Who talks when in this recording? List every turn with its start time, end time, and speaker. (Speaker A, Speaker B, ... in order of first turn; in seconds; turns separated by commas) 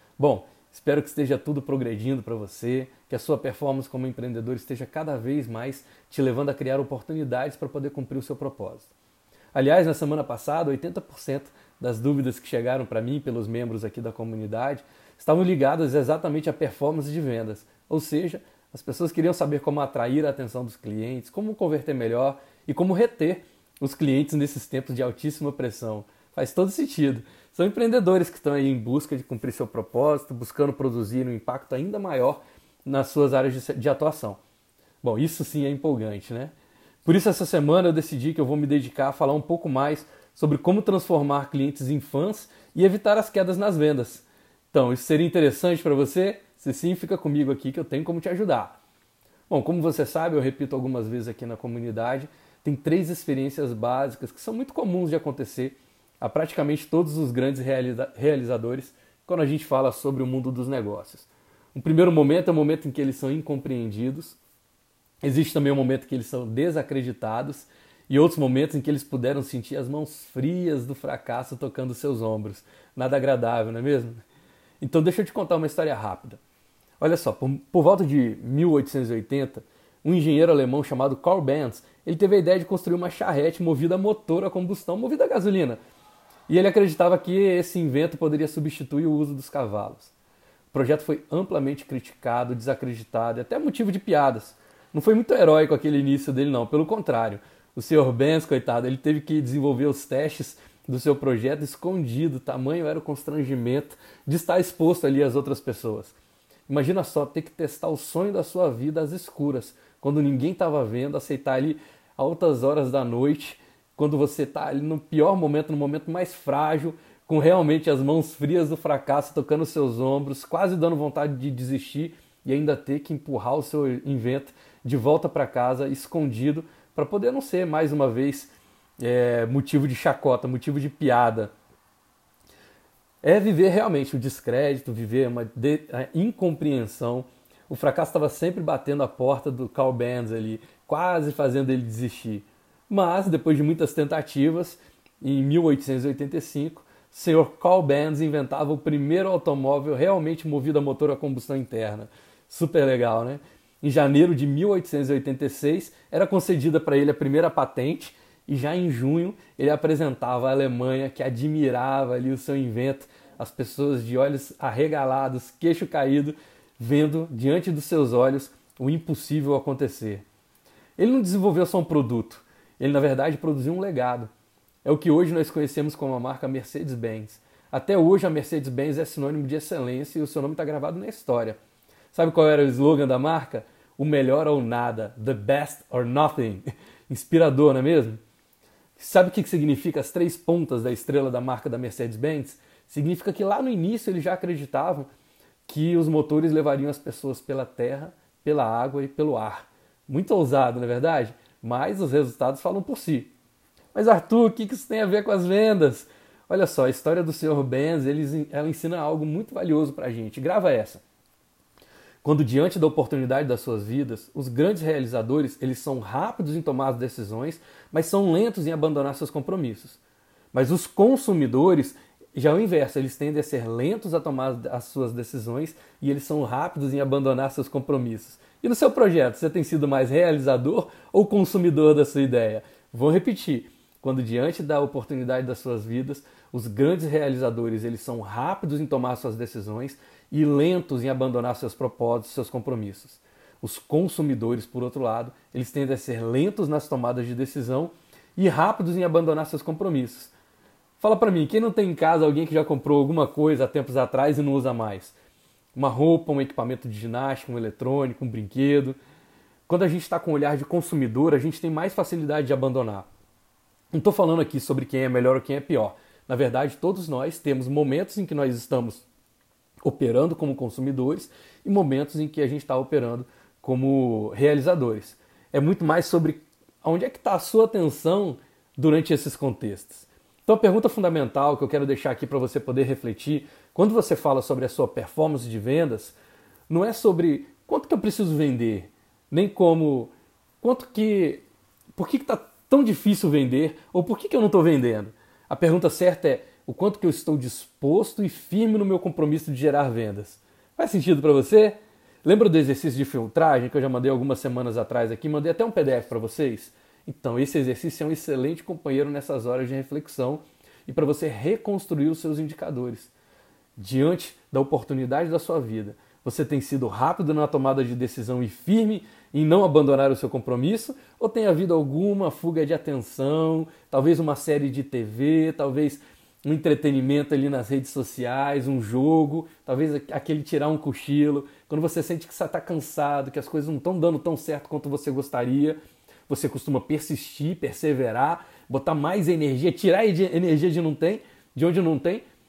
Speaker A: 0.2-8.9, Speaker A: 9.5-34.4, Speaker A: 35.0-36.5, Speaker A: 37.0-48.8, Speaker A: 49.5-64.4, Speaker A: 65.2-74.2, Speaker A: 74.8-76.4, Speaker A: 77.0-85.8, Speaker A: 86.5-90.1, Speaker A: 90.7-106.2, Speaker A: 106.7-131.5, Speaker A: 133.2-170.2, Speaker A: 171.0-174.3, Speaker A: 174.8-181.6, Speaker A: 182.1-188.2, Speaker A: 189.0-195.1, Speaker A: 195.7-203.3, Speaker A: 203.9-211.0, Speaker A: 212.2-220.0, Speaker A: 220.5-250.3, Speaker A: 251.0-255.2, Speaker A: 255.8-259.0, Speaker A: 259.7-263.1, Speaker A: 263.9-269.1, Speaker A: 269.8-286.2, Speaker A: 286.7-291.4, Speaker A: 291.9-313.1, Speaker A: 313.8-342.2